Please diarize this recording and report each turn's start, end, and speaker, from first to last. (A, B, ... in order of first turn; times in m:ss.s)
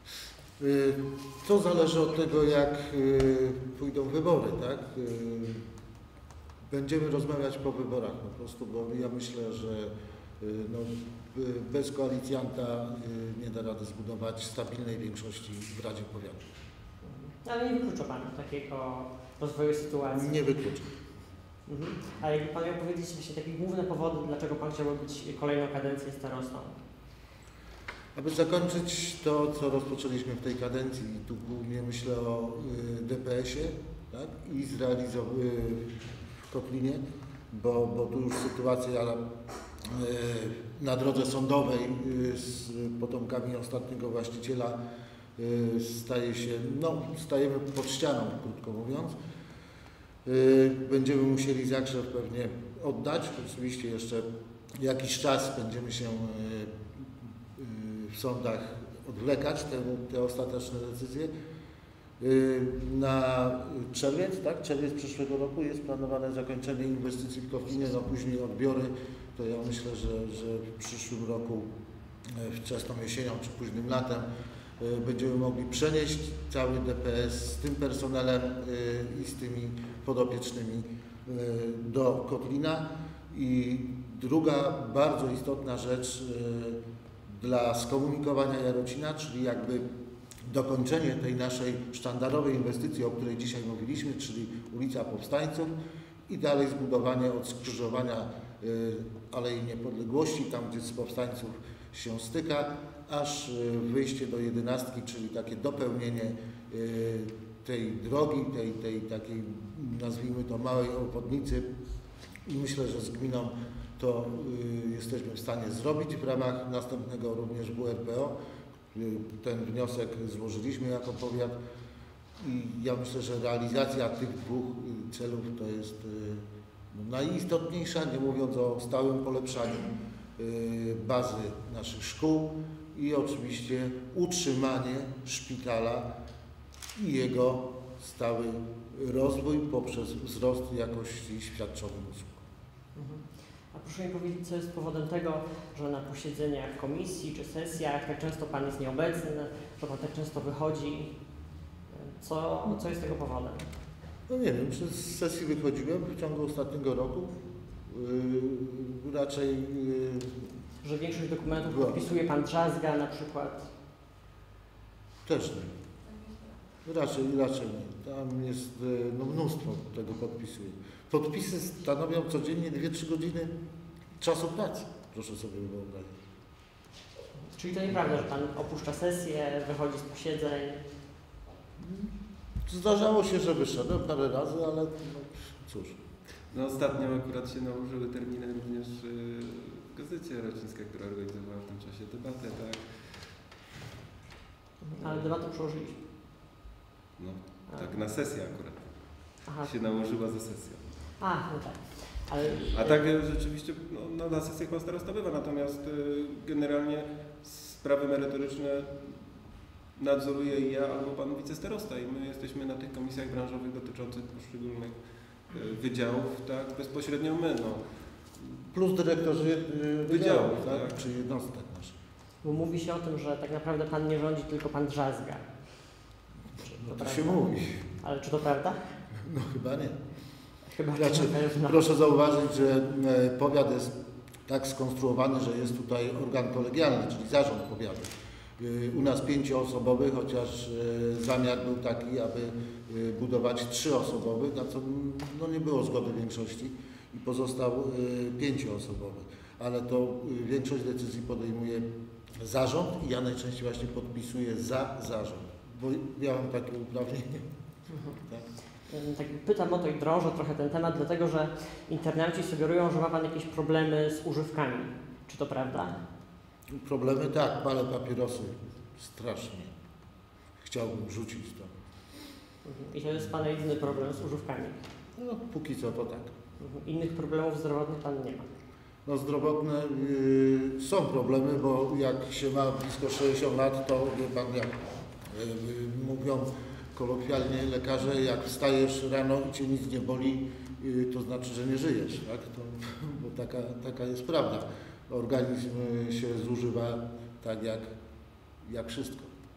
0:00.6-0:05.6 A
0:06.7-0:16.4 A
0:17.0-0:20.3 B
0:20.1-0:20.9 A
0:21.7-0:26.8 B
0:28.1-0:39.3 A
0:39.8-0:44.8 A
0:45.4-0:49.2 A
0:50.2-0:54.3 A
0:54.8-1:01.3 A
1:02.2-1:11.7 A
1:12.2-1:29.9 A
1:30.4-1:35.7 A
1:36.3-1:51.7 A
1:52.4-1:58.4 A
1:58.9-2:01.6 A
2:02.4-2:16.1 A
2:17.0-2:22.4 A
2:23.0-2:31.2 B
2:31.9-2:33.6 B
2:34.3-2:40.6 A
2:40.8-2:43.7 B
2:41.6-2:42.0 A
2:45.2-2:45.7 A
2:46.8-2:53.5 A
2:54.2-2:56.2 A
2:57.6-3:00.8 B
3:01.8-3:06.0 A
3:06.5-3:13.3 C
3:14.8-3:16.0 B
3:15.0-3:15.3 C
3:17.2-3:20.9 C
3:19.4-3:19.7 B
3:21.2-3:23.0 B
3:22.4-3:38.5 C
3:38.7-3:41.9 A
3:40.1-3:41.0 C
3:42.4-3:45.5 B
3:46.6-3:48.8 B
3:46.6-3:47.9 A
3:49.2-3:50.0 A
3:50.7-3:51.8 B
3:51.0-4:11.9 A
4:12.4-4:17.4 A
4:17.9-4:18.2 B
4:18.8-4:26.0 B
4:26.7-4:29.7 A
4:30.6-4:31.7 A
4:32.6-4:34.8 B
4:35.2-4:36.3 A
4:36.6-4:38.5 B
4:39.1-4:57.9 A
4:58.6-4:59.3 A